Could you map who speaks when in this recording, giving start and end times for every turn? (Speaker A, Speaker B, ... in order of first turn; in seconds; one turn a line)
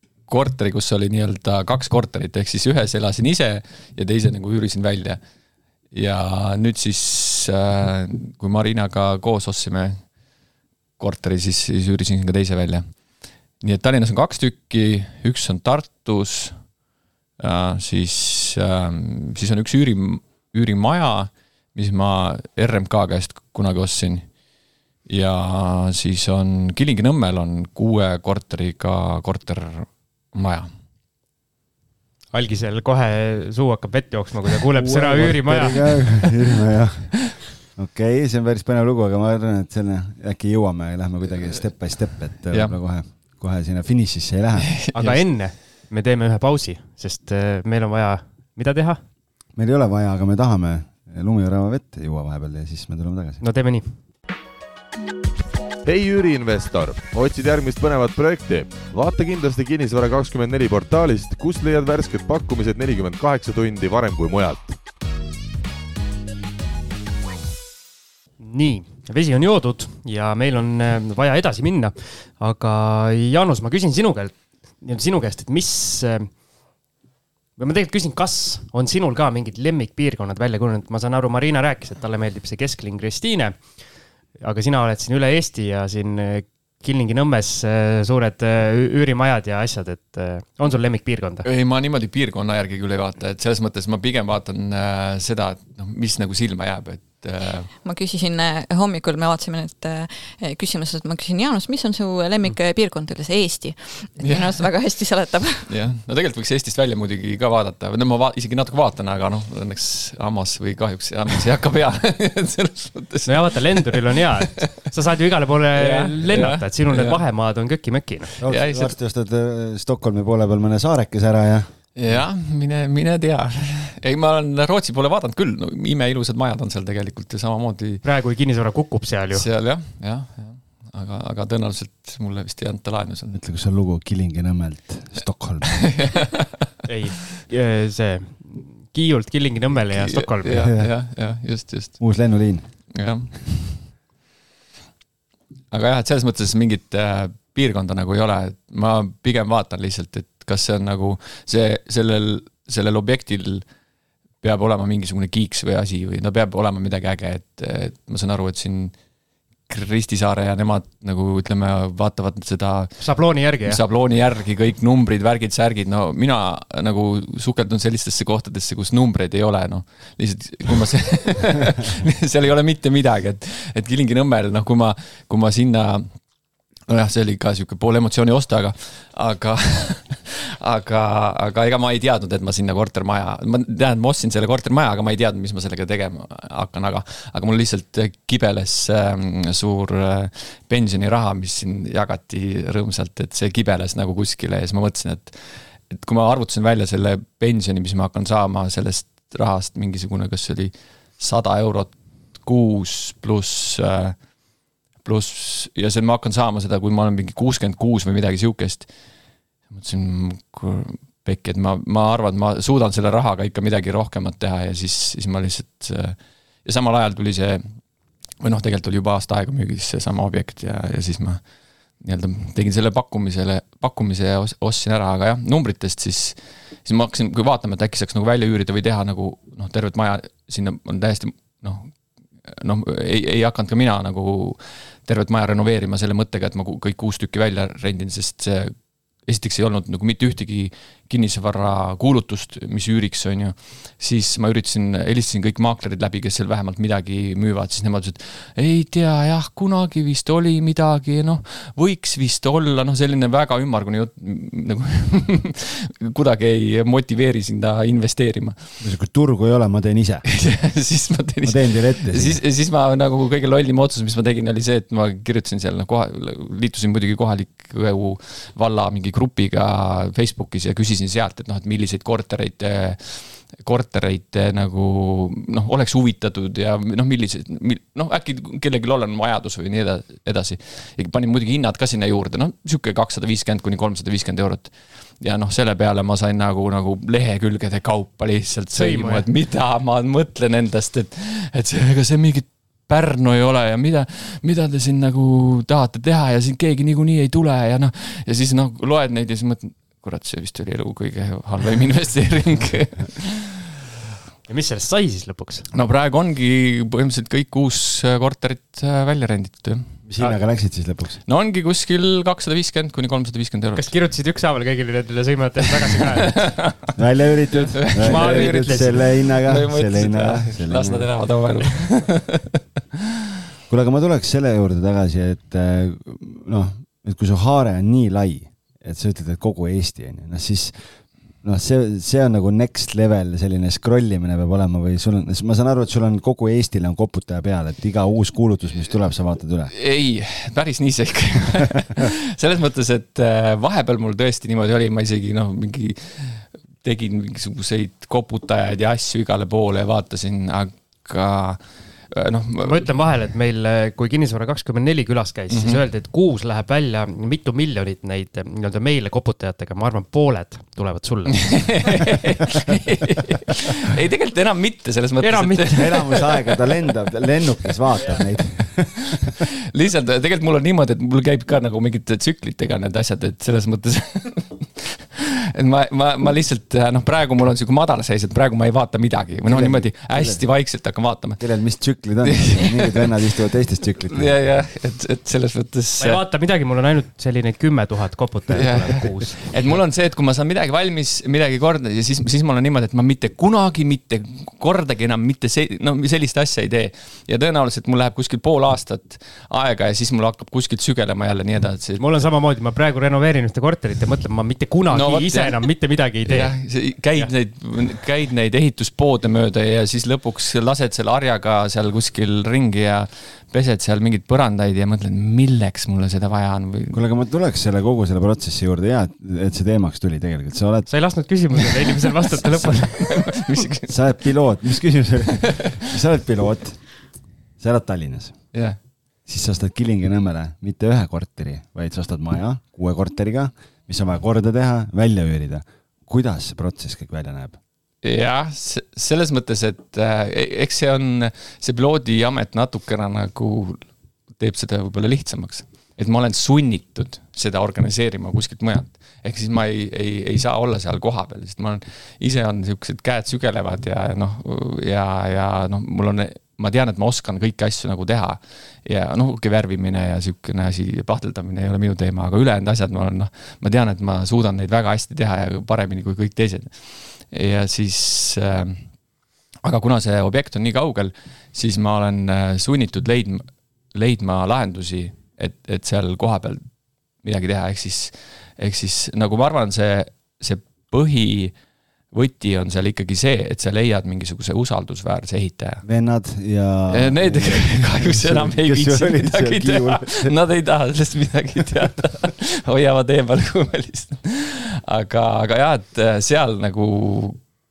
Speaker A: 0.3-5.2
Speaker A: 5.9-10.0
Speaker A: 11.0-12.8
Speaker A: 13.6-16.6
Speaker A: 17.4-24.3
Speaker A: 25.1-30.7
Speaker B: 32.3-36.3
Speaker C: 34.8-44.8
Speaker A: 41.8-42.8
Speaker A: 44.7-45.6
Speaker B: 44.9-49.0
Speaker C: 49.5-53.4
Speaker B: 53.4-53.9
Speaker D: 55.8-64.8
Speaker B: 68.4-76.4
Speaker B: 77.6-91.5
Speaker A: 91.4-97.7
Speaker E: 97.8-105.7
Speaker A: 104.2-104.6
Speaker A: 105.7-114.9
Speaker B: 113.3-118.3
Speaker A: 115.7-117.2
Speaker C: 118.4-122.2
Speaker A: 118.5-119.0
Speaker A: 122.0-128.0
Speaker B: 128.0-129.5
Speaker A: 129.3-133.4
Speaker C: 133.3-136.0
Speaker A: 135.8-136.7
Speaker B: 136.9-140.7
Speaker A: 139.9-142.2
Speaker C: 142.0-142.9
Speaker A: 142.9-143.9
Speaker A: 145.7-153.6
Speaker A: 154.4-158.9
Speaker A: 159.7-163.0
Speaker B: 163.0-163.8
Speaker A: 163.6-176.1
Speaker A: 176.9-204.2
Speaker A: 205.0-208.9
Speaker A: 209.7-217.6
Speaker A: 218.4-221.4
Speaker A: 222.0-231.9
Speaker A: 232.4-258.6
Speaker C: 258.8-260.3
Speaker A: 260.3-303.6
Speaker C: 261.4-262.4
Speaker B: 288.7-289.3
Speaker B: 304.5-305.7
Speaker A: 305.7-309.8
Speaker C: 310.1-311.2
Speaker A: 311.3-313.9
Speaker B: 313.8-316.5
Speaker A: 316.3-316.7
Speaker C: 316.9-321.1
Speaker A: 317.7-322.6
Speaker B: 317.9-319.0
Speaker C: 323.7-330.9
Speaker C: 331.4-339.7
Speaker A: 339.7-352.9
Speaker B: 352.6-362.0
Speaker A: 355.5-355.8
Speaker A: 361.4-366.5
Speaker B: 365.2-366.2
Speaker C: 365.7-369.3
Speaker A: 369.2-381.4
Speaker C: 379.4-380.4
Speaker C: 381.4-384.4
Speaker A: 382.2-383.2
Speaker A: 384.1-386.2
Speaker B: 386.0-389.5
Speaker A: 388.5-402.1
Speaker B: 402.0-406.5
Speaker A: 404.9-405.6
Speaker A: 406.2-417.0
Speaker C: 416.9-420.9
Speaker B: 420.9-423.4
Speaker A: 422.0-424.0
Speaker C: 423.9-426.8
Speaker C: 427.6-428.4
Speaker C: 429.3-437.6
Speaker A: 438.0-468.8
Speaker A: 469.6-476.6
Speaker A: 477.2-481.5
Speaker A: 482.1-485.8
Speaker C: 485.8-490.4
Speaker A: 486.9-497.4